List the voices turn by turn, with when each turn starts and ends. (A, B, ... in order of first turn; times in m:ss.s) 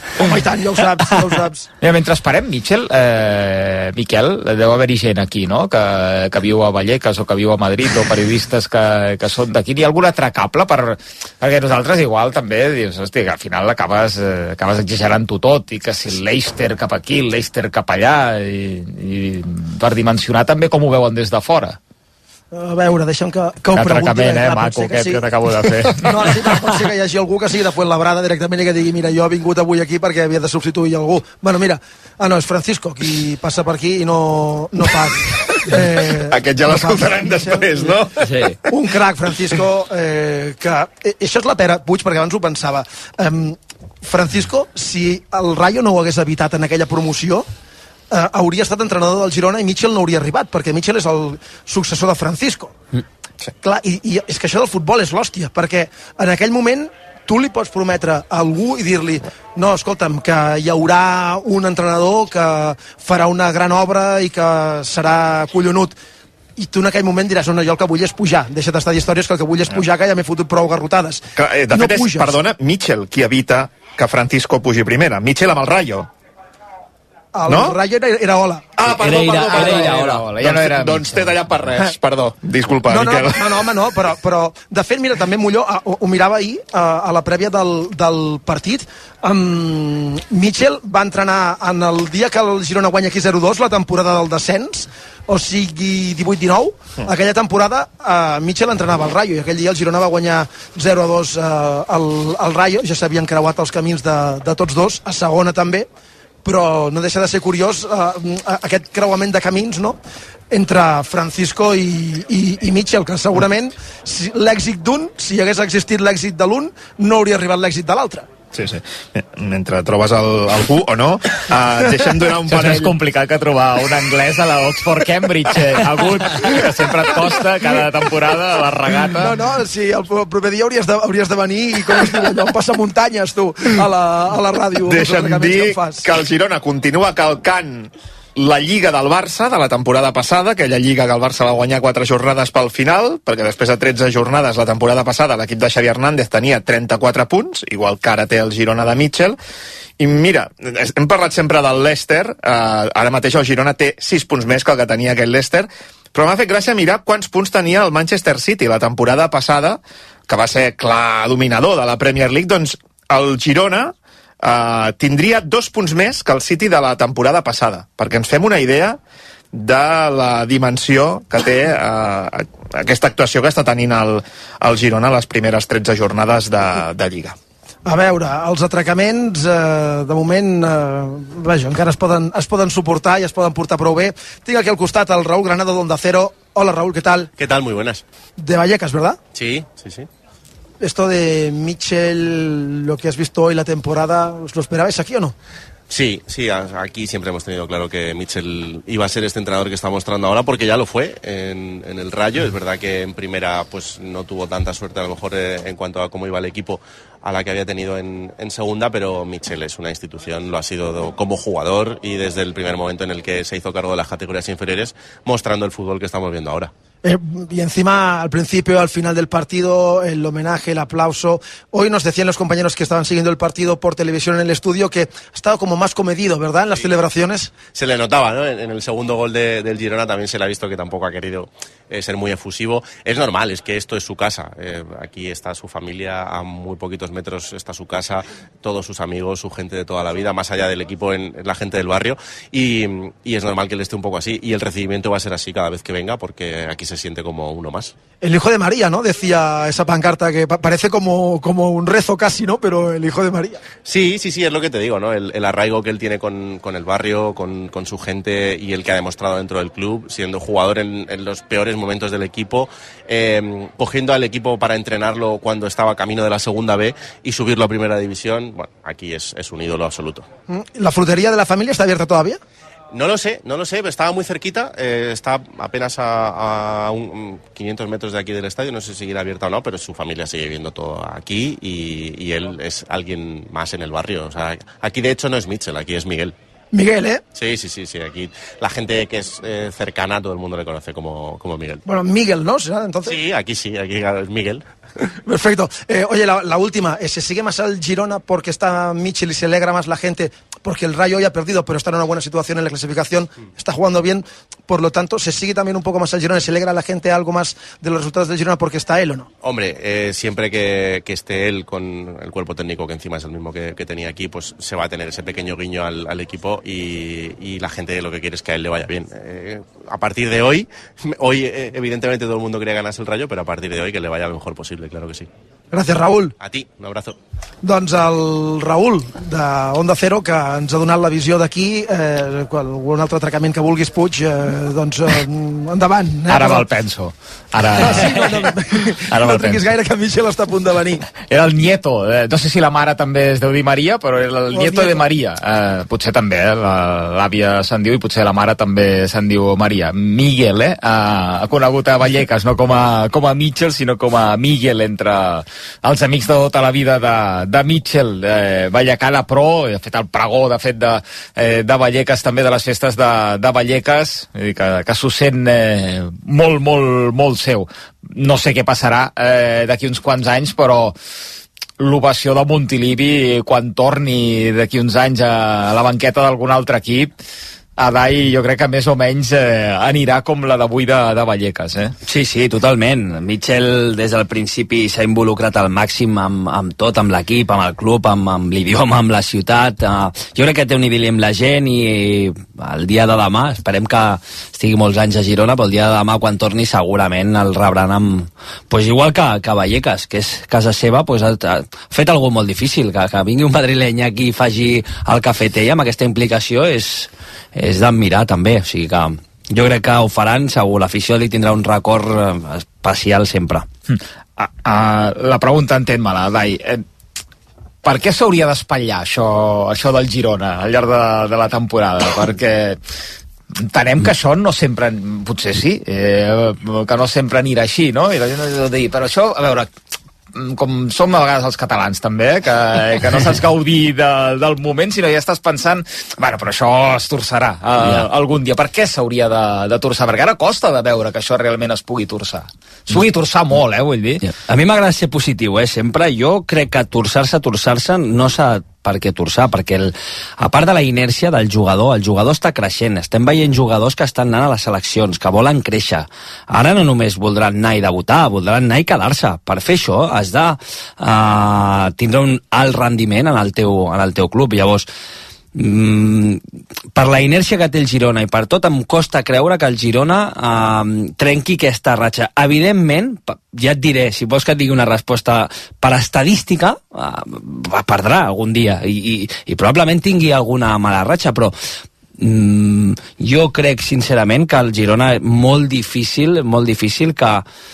0:00.2-0:01.7 A
0:01.8-0:21.8 B
0:22.5-0:25.2 A
0:23.7-0:26.6 B
0:25.9-0:38.0 A
0:36.3-0:38.5 C
0:38.2-0:38.6 D
0:38.7-0:47.5 A
0:48.1-0:52.7 A
0:53.6-1:06.0 A
1:06.6-1:12.4 A
1:11.4-1:16.1 C
1:17.4-1:18.7 A
1:17.5-1:17.8 C
1:18.8-1:23.6 C
1:18.9-1:20.3 D
1:19.1-1:21.6 B
1:22.9-1:45.9 A
1:46.4-1:50.0 A
1:50.5-1:58.3 A
1:58.5-2:02.9 C
2:02.5-2:09.4 B
2:09.2-2:16.0 A
2:14.9-2:29.4 C
2:30.0-2:49.0 C
2:49.5-2:57.4 C
2:57.9-3:07.3 A
3:07.4-3:08.0 E
3:08.4-3:09.2 A
3:09.3-3:10.1 E
3:10.8-3:15.4 A
3:15.9-3:36.7 E
3:37.0-3:47.5 A
3:47.7-4:07.9 E
4:08.2-4:13.6 A
4:13.8-4:30.3 E
4:30.5-4:32.4 A
4:32.9-4:46.4 E
4:46.7-4:47.2 A
4:47.4-4:51.8 E
4:51.8-4:53.2 A
4:53.0-4:54.6 E
4:55.2-5:09.3 A
5:09.4-5:25.3 E
5:25.7-5:26.4 A
5:26.4-5:27.2 E
5:27.6-5:36.7 A
5:36.3-5:38.5 B
5:37.8-5:41.0 A
5:39.1-5:39.6 B
5:41.3-6:11.0 B
5:44.5-5:45.0 A
6:11.8-6:17.2 B
6:17.8-6:22.0 B
6:22.0-6:53.7 D
6:53.9-6:56.8 B
6:57.8-7:02.8 B
7:03.6-7:09.7 B
7:10.3-7:24.2 B
7:17.8-7:18.1 D
7:24.2-7:44.9 D
7:45.6-7:46.4 D
7:46.9-8:01.6 D
8:02.2-8:07.4 D